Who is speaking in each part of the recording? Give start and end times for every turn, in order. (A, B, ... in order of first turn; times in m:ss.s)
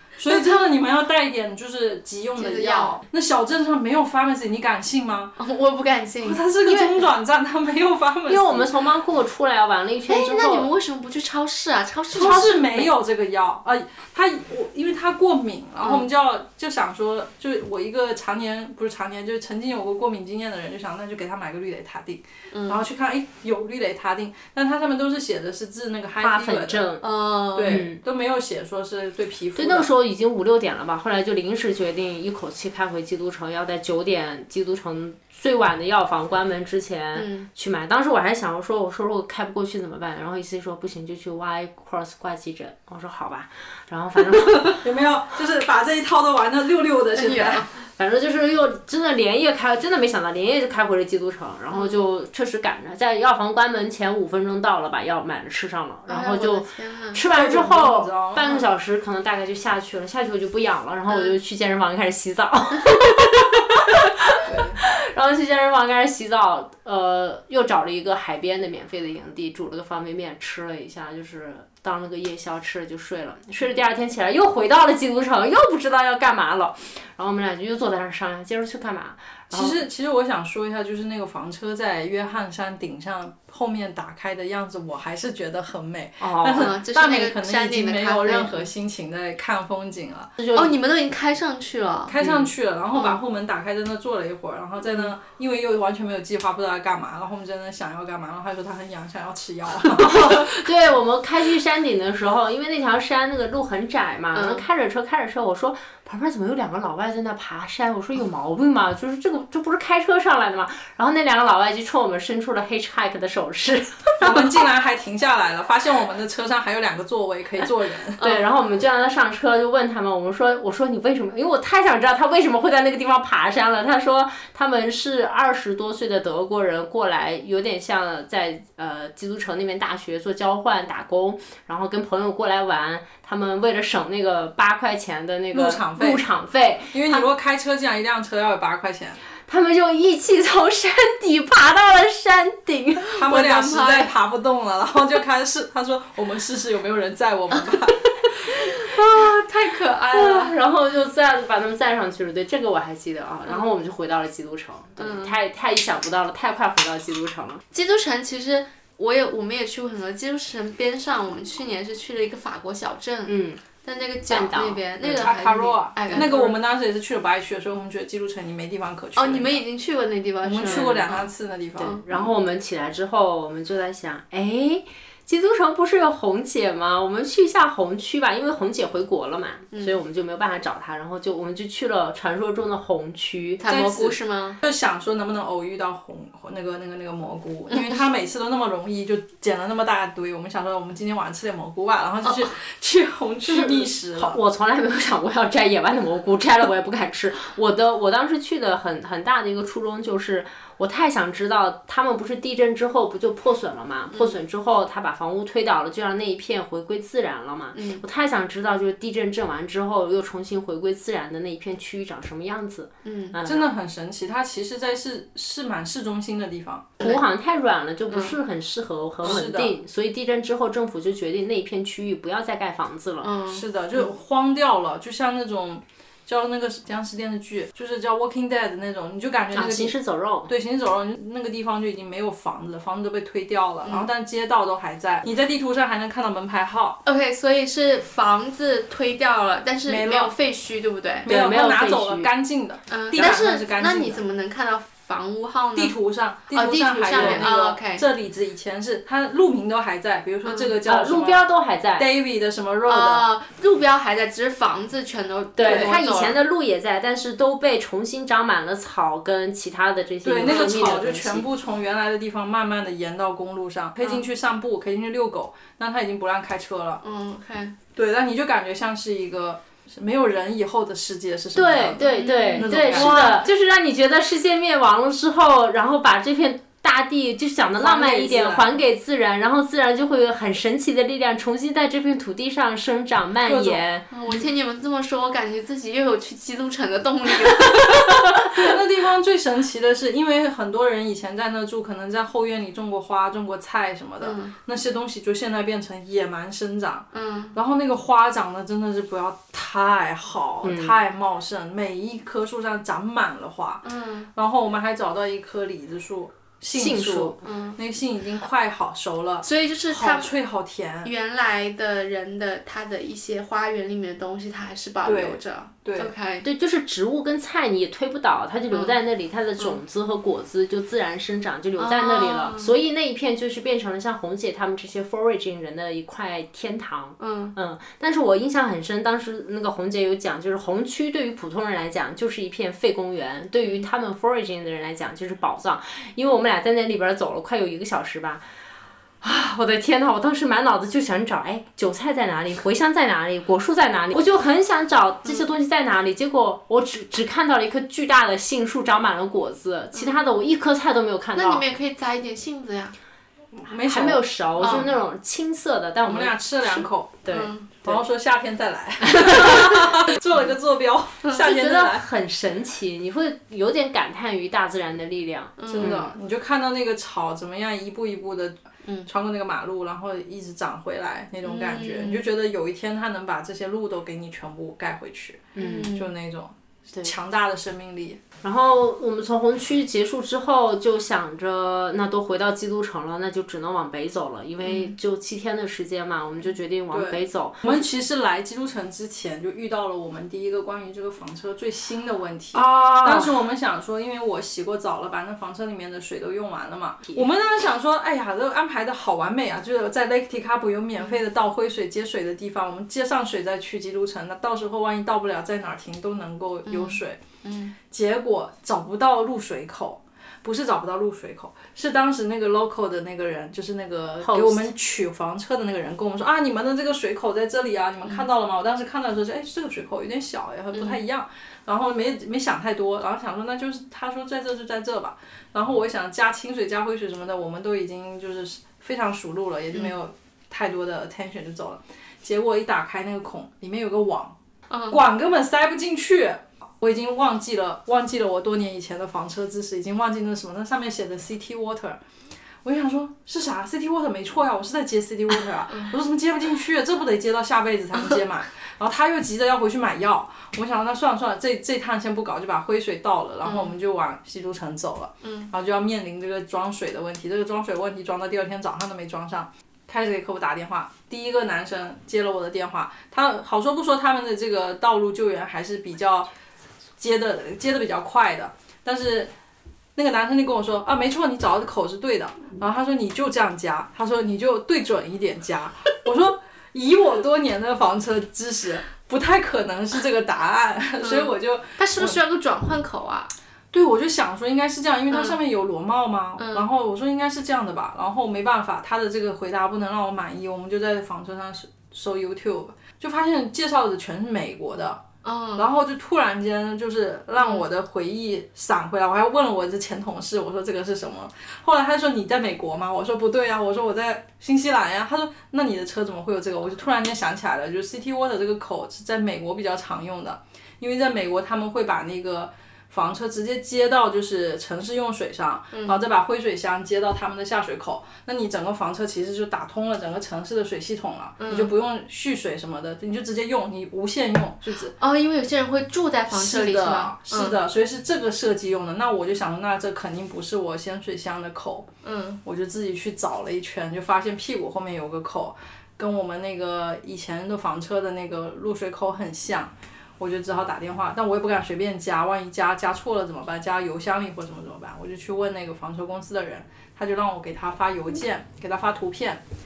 0:00.2-0:05.3 A
0:00.3-0:00.6 B
0:02.4-0:03.0 B
0:05.4-0:06.4 B
0:06.2-0:08.7 A
0:06.6-0:06.9 C
0:08.3-0:10.7 C
0:10.1-0:12.7 B
0:12.1-0:26.8 A
0:12.3-0:12.9 C
0:22.5-0:22.8 B
0:26.2-0:27.1 C
0:27.0-0:27.8 B
0:27.5-0:29.9 A
0:27.6-0:28.0 C
0:29.6-0:44.8 C
0:37.1-0:37.5 B
0:44.6-0:47.7 A
0:47.1-0:47.6 B
0:48.0-1:19.8 C
0:51.7-0:52.0 B
0:56.1-0:57.2 B
0:57.3-0:58.6 A
1:01.1-1:01.3 B
1:04.4-1:04.8 A
1:19.5-1:30.4 A
1:26.2-1:26.7 C
1:26.5-1:28.7 B
1:30.4-1:30.7 C
1:30.5-1:32.2 B
1:32.1-1:40.5 A
1:32.2-1:32.5 C
1:32.9-1:33.2 B
1:40.0-1:54.5 C
1:44.3-1:44.6 B
1:54.2-1:58.2 A
1:58.2-2:17.3 C
1:58.2-1:58.4 B
2:15.5-2:16.2 A
2:16.9-2:19.2 A
2:19.5-2:23.1 C
2:23.1-2:24.1 B
2:23.2-2:28.7 A
2:28.6-2:30.5 B
2:30.1-2:37.6 C
2:35.0-2:35.4 B
2:37.7-2:46.5 B
2:43.3-2:43.6 C
2:44.3-2:45.3 C
2:45.0-2:49.6 A
2:49.2-2:51.3 B
2:50.4-2:52.3 A
2:50.6-2:51.1 C
2:51.8-3:03.6 C
2:59.7-3:00.0 B
3:03.6-3:04.6 B
3:03.7-3:14.4 A
3:12.2-3:12.5 B
3:13.5-3:33.7 C
3:24.1-3:24.4 B
3:27.7-3:28.0 B
3:33.0-3:33.4 B
3:33.4-3:37.0 A
3:37.0-3:43.3 C
3:38.1-3:38.4 B
3:39.2-3:39.7 A
3:43.2-3:43.6 B
3:43.5-3:50.0 A
3:49.5-3:50.5 C
3:50.5-3:57.0 A
3:57.0-4:01.3 B
3:59.8-4:00.3 A
4:01.2-4:04.2 A
4:01.3-4:02.3 C
4:02.9-4:05.9 B
4:05.8-4:11.4 A
4:06.5-4:08.0 B
4:07.1-4:07.4 C
4:10.4-4:10.7 B
4:10.8-4:12.1 C
4:12.0-4:13.3 A
4:12.9-4:16.4 B
4:15.6-4:21.4 C
4:15.6-4:16.0 A
4:20.2-4:27.0 A
4:27.0-4:27.8 B
4:27.9-4:33.4 A
4:31.6-4:44.1 C
4:32.0-4:33.4 B
4:37.8-4:38.7 A
4:43.4-4:43.8 A
4:44.1-4:48.7 B
4:48.5-5:11.1 A
4:54.2-4:54.5 B
4:57.1-4:57.6 B
5:00.6-5:01.0 C
5:03.8-5:04.3 B
5:06.7-5:07.4 C
5:07.4-5:07.8 B
5:09.4-5:10.3 B
5:11.0-5:16.4 B
5:15.0-5:16.1 A
5:16.4-5:38.4 C
5:18.7-5:19.0 B
5:21.8-5:22.7 B
5:27.2-5:27.6 B
5:39.2-5:51.6 C
5:51.3-5:53.0 B
5:53.5-5:54.8 A
5:53.8-5:58.0 C
5:54.6-5:54.9 B
5:56.0-5:57.2 A
5:57.3-5:57.7 B
5:57.8-6:02.0 A
5:59.0-6:00.0 C
6:01.3-6:06.1 C
6:05.6-6:06.1 B
6:05.7-6:18.2 A
6:11.4-6:12.2 B
6:15.6-6:15.9 C
6:15.6-6:16.1 B
6:18.4-6:27.8 C
6:24.6-6:24.9 B
6:26.9-6:47.2 A
6:32.5-6:33.4 C
6:46.7-6:47.7 B
6:47.9-7:14.4 A
6:54.2-6:54.7 C
7:14.7-7:15.0 B
7:14.9-7:22.0 A
7:22.6-7:46.3 A
7:25.7-7:26.0 B
7:33.4-7:33.7 B
7:35.2-7:35.5 B
7:47.0-7:49.3 A
7:49.9-8:02.2 A
8:01.0-8:03.3 B
8:03.7-8:15.0 A
8:05.1-8:05.4 B
8:06.4-8:06.7 B
8:15.2-8:15.7 B
8:15.6-8:44.9 A
8:17.4-8:17.6 B
8:35.7-8:36.0 B
8:41.4-8:41.7 B
8:45.0-8:47.6 B
8:46.3-8:51.9 A
8:52.0-8:52.4 B
8:52.4-9:09.4 A